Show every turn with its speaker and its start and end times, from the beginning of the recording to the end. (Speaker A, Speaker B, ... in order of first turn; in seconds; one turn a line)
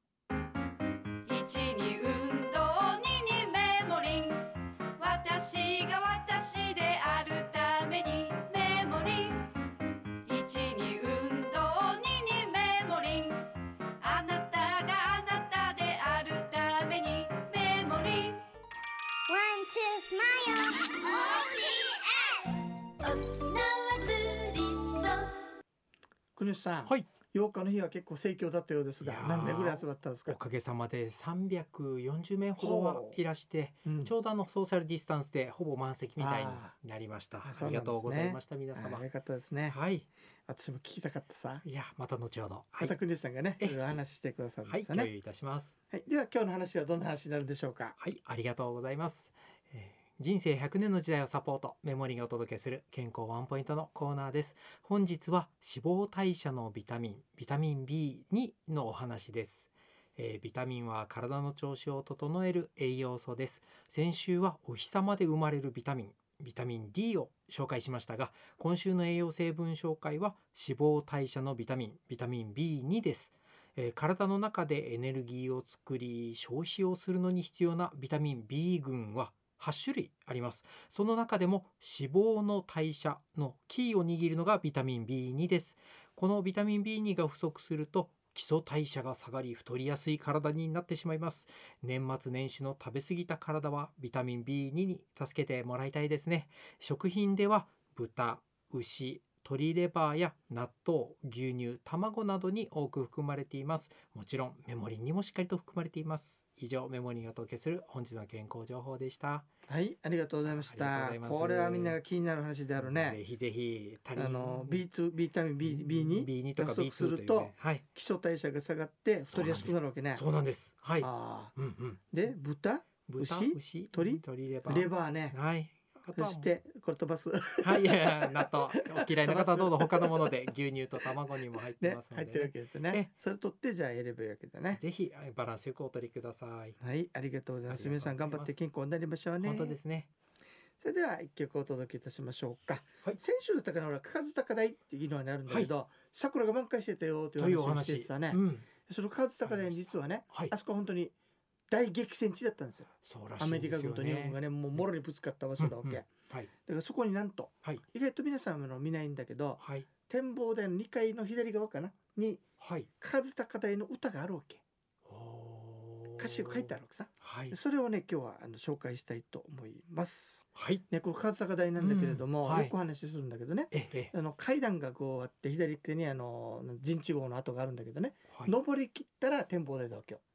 Speaker A: 1.2-9.5
Speaker A: 10.2-18.4
Speaker B: 19.3-24.1
Speaker A: 23.0-25.4
Speaker C: 26.4-30.4
Speaker D: 29.0-39.0
Speaker C: 32.6-33.2
Speaker C: 33.8-34.1
Speaker C: 36.2-36.7
Speaker C: 37.4-39.8
Speaker D: 39.7-40.1
Speaker C: 40.5-41.6
Speaker D: 41.6-43.0
Speaker C: 42.8-45.1
Speaker D: 44.6-45.7
Speaker C: 45.9-48.0
Speaker D: 48.0-109.5
Speaker C: 109.7-113.2
Speaker D: 110.5-112.0
Speaker D: 112.8-114.8
Speaker C: 114.2-120.2
Speaker D: 115.6-117.8
Speaker D: 119.3-122.0
Speaker C: 121.0-121.5
Speaker C: 122.1-125.4
Speaker D: 123.1-126.5
Speaker C: 126.1-130.3
Speaker D: 127.6-133.1
Speaker C: 131.8-134.8
Speaker D: 134.7-136.8
Speaker C: 136.8-139.8
Speaker D: 137.7-138.5
Speaker D: 139.4-140.1
Speaker C: 140.8-151.1
Speaker D: 147.4-148.7
Speaker D: 149.4-149.8
Speaker C: 151.7-156.1
Speaker D: 153.0-154.8
Speaker D: 155.6-156.5
Speaker C: 156.6-162.4
Speaker D: 159.6-159.9
Speaker D: 162.6-162.9
Speaker C: 163.0-164.6
Speaker D: 165.1-167.6
Speaker C: 166.2-180.2
Speaker D: 170.5-170.8
Speaker D: 171.8-172.7
Speaker D: 173.7-174.1